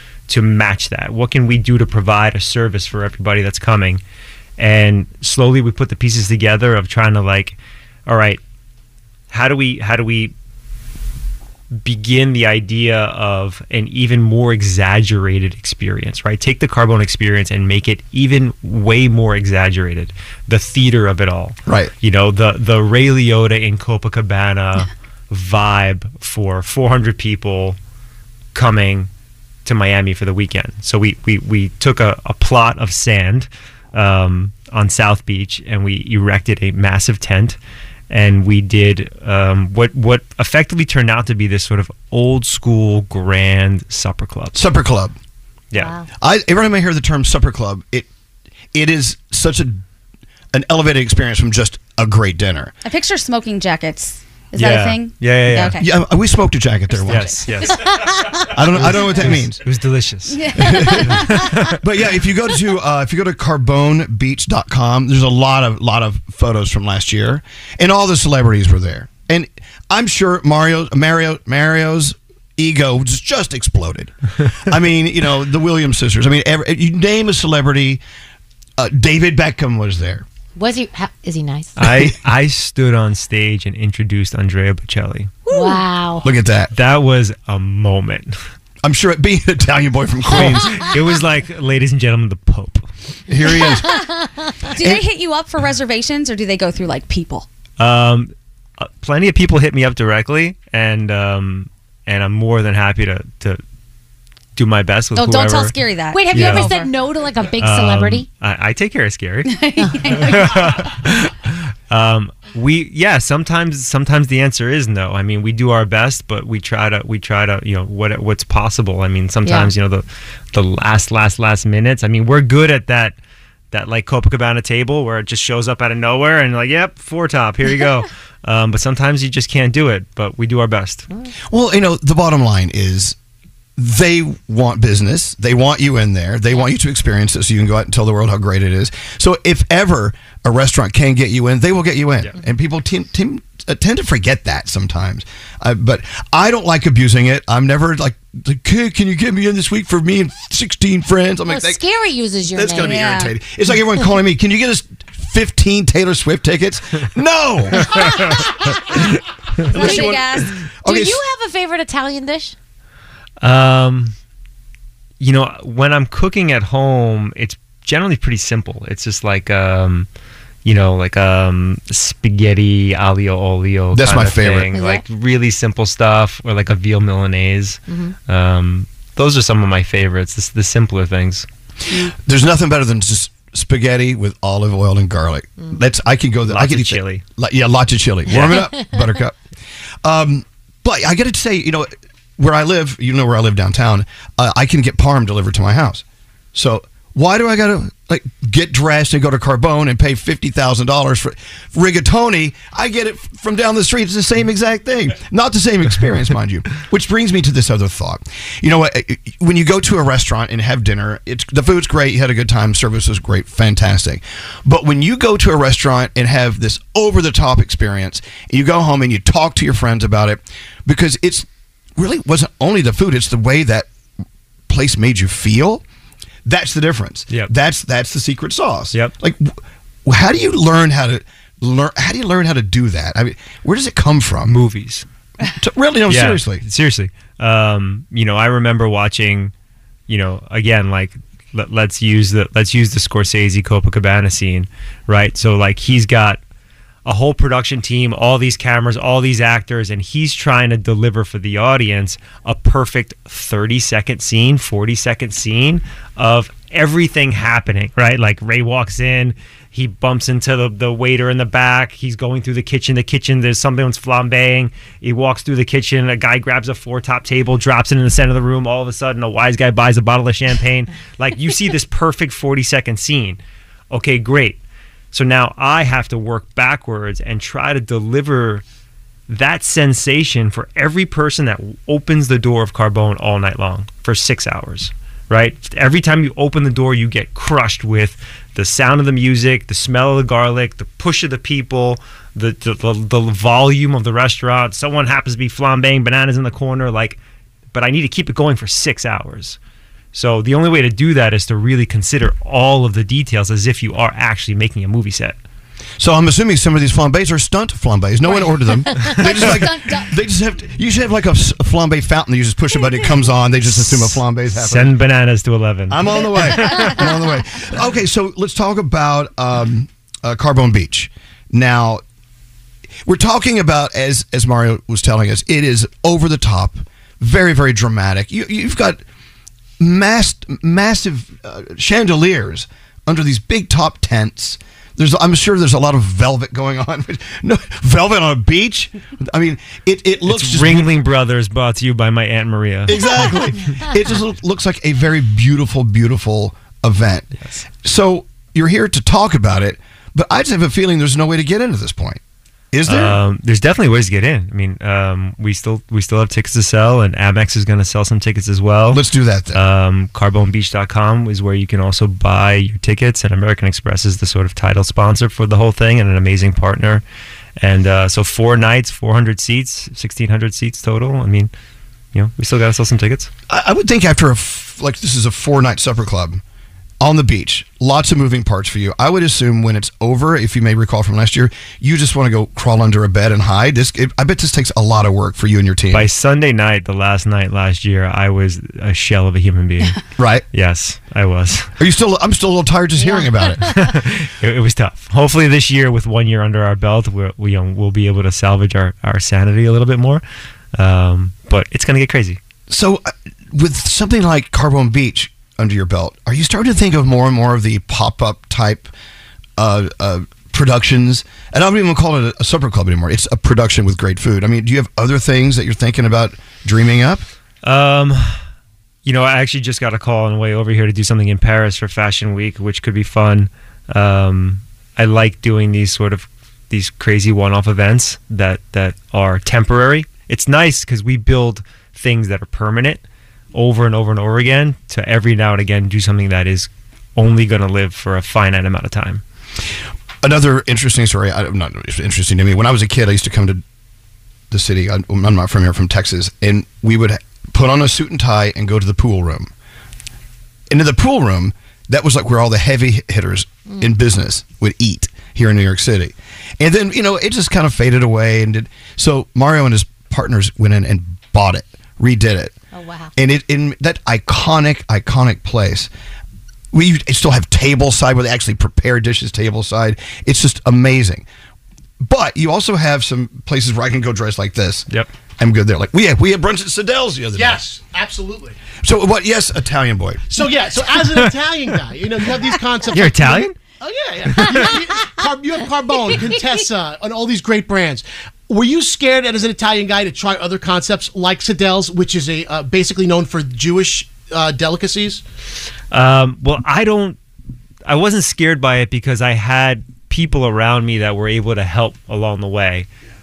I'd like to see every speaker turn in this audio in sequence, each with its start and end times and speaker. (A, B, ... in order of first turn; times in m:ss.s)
0:00.3-0:04.0 A
0:04.6-0:08.4 A
0:09.3-0:10.3 A
0:11.7-0:27.8 A
0:21.6-0:21.9 B
0:28.5-0:29.1 A
0:29.6-0:37.6 A
0:38.1-0:44.5 A
0:44.5-0:45.1 B
0:45.7-0:46.0 A
0:45.7-0:46.1 C
0:46.2-0:48.1 B
0:48.7-0:49.8 B
0:50.5-0:52.7 B
0:52.8-0:55.8 D
0:54.5-0:55.8 A
0:55.7-0:57.5 B
0:57.0-0:57.8 A
0:57.7-0:58.4 C
0:58.4-1:01.8 A
0:58.5-0:59.6 B
1:00.3-1:01.4 D
1:00.6-1:14.1 B
1:14.6-1:18.0 B
1:18.8-1:20.2 B
1:20.6-1:21.7 C
1:21.8-1:25.4 A
1:21.8-1:22.1 B
1:25.5-1:26.3 C
1:26.2-1:26.7 B
1:26.7-1:28.4 A
1:28.8-1:30.9 B
1:30.3-1:32.8 A
1:30.4-1:30.8 C
1:33.3-1:33.9 B
1:33.5-1:34.5 C
1:34.7-1:37.5 D
1:34.8-1:35.0 B
1:37.8-1:43.6 A
1:44.6-1:45.8 A
1:45.2-1:46.9 D
1:46.1-1:48.3 C
1:46.3-1:46.7 A
1:47.6-1:49.6 A
1:49.5-1:50.9 D
1:49.8-1:50.3 C
1:50.1-2:03.2 A
1:59.4-1:59.7 C
2:03.7-2:11.0 A
2:11.5-2:13.2 B
2:13.8-2:31.8 B
2:31.5-2:33.1 C
2:32.5-2:38.4 B
2:32.8-2:33.3 D
2:37.8-2:39.0 C
2:39.6-2:41.2 B
2:39.7-2:40.5 D
2:39.7-2:42.5 C
2:43.4-2:44.1 A
2:45.2-2:50.1 A
2:50.6-3:01.4 A
2:53.9-2:54.7 B
2:54.7-2:55.0 C
2:57.9-2:58.1 C
3:01.9-3:09.4 B
3:06.4-3:07.2 A
3:08.3-3:08.7 A
3:08.3-3:09.2 C
3:10.0-3:16.0 B
3:16.5-3:43.9 B
3:44.7-3:45.8 B
3:46.4-3:54.5 B
3:54.4-3:55.0 A
3:55.4-3:56.6 B
3:56.1-3:59.5 A
4:00.1-4:06.4 A
4:07.0-4:33.4 A
4:33.9-4:34.6 A
4:35.1-4:38.6 A
4:39.3-4:57.2 A
4:57.7-4:59.6 A
5:00.1-5:05.4 A
5:06.0-5:14.9 B
5:08.3-5:10.0 C
5:09.2-5:09.6 A
5:13.9-5:17.0 A
5:15.9-5:22.0 B
5:23.0-5:29.0 B
5:29.8-5:40.9 B
5:40.2-5:43.4 A
5:42.9-5:52.2 B
5:43.0-5:43.8 C
5:52.7-5:53.2 B
5:52.8-5:59.0 A
5:58.9-5:59.6 B
5:59.5-6:07.0 A
6:07.6-6:11.5 A
6:12.1-6:13.3 A
6:13.5-6:16.4 B
6:17.0-6:26.1 B
6:25.9-6:30.0 A
6:30.2-6:30.4 B
6:30.5-6:31.7 A
6:31.8-6:33.7 B
6:33.0-6:33.5 C
6:33.6-6:40.2 A
6:40.7-6:42.4 A
6:42.7-6:48.9 B
6:49.6-6:57.2 B
6:57.6-6:58.4 A
6:59.0-7:13.0 A
7:13.5-7:19.2 A
7:20.2-7:23.6 B
7:24.5-7:29.5 B
7:30.7-7:42.5 B
7:42.7-7:43.1 C
7:43.2-7:45.9 B
7:46.7-7:51.3 B
7:52.0-7:54.9 B
7:55.4-7:57.6 B
7:57.3-7:58.6 E
7:58.8-8:00.4 B
8:00.3-8:15.2 E
8:01.0-8:01.3 A
8:02.9-8:03.6 A
8:04.4-8:04.6 A
8:04.4-8:04.7 C
8:15.9-8:17.2 A
8:17.8-8:22.9 A